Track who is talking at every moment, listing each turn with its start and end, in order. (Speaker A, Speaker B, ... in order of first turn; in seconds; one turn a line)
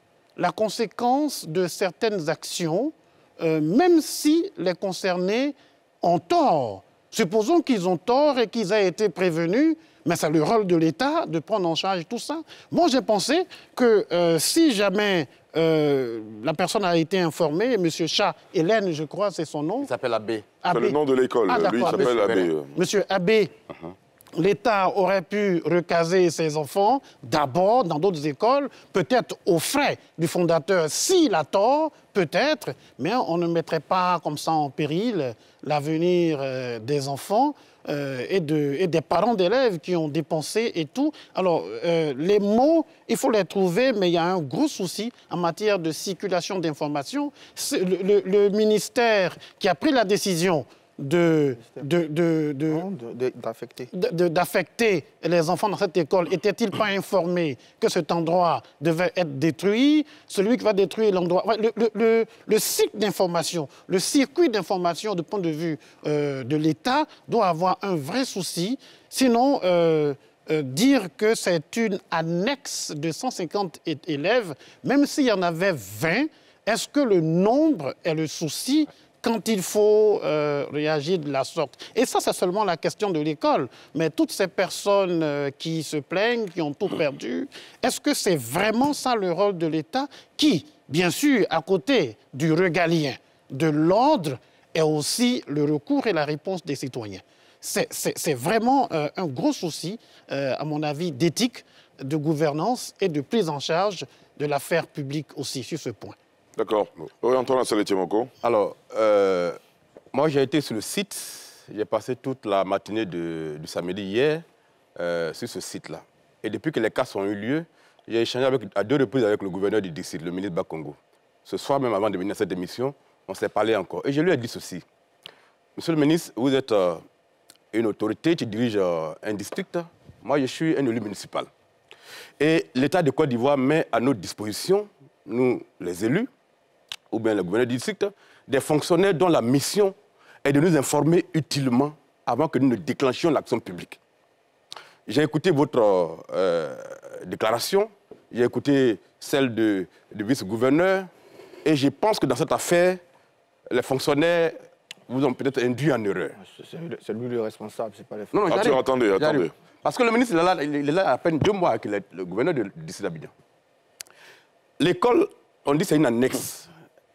Speaker A: 0.4-19.9
Speaker B: 19.8-20.5
Speaker A: 20.6-23.5
Speaker C: 20.7-22.8
Speaker B: 21.8-22.4
Speaker A: 24.4-52.8
Speaker D: 52.7-53.9
Speaker A: 53.9-106.2
Speaker C: 106.6-108.3
Speaker B: 108.4-109.6
Speaker B: 110.1-114.4
Speaker B: 115.0-124.8
Speaker B: 125.8-127.0
Speaker B: 127.7-131.5
Speaker B: 132.4-136.3
Speaker B: 137.1-144.0
Speaker B: 145.1-151.1
Speaker B: 151.6-153.0
Speaker B: 153.7-156.3
Speaker D: 156.3-158.5
Speaker B: 158.3-163.3
Speaker C: 158.5-159.5
Speaker B: 164.8-166.7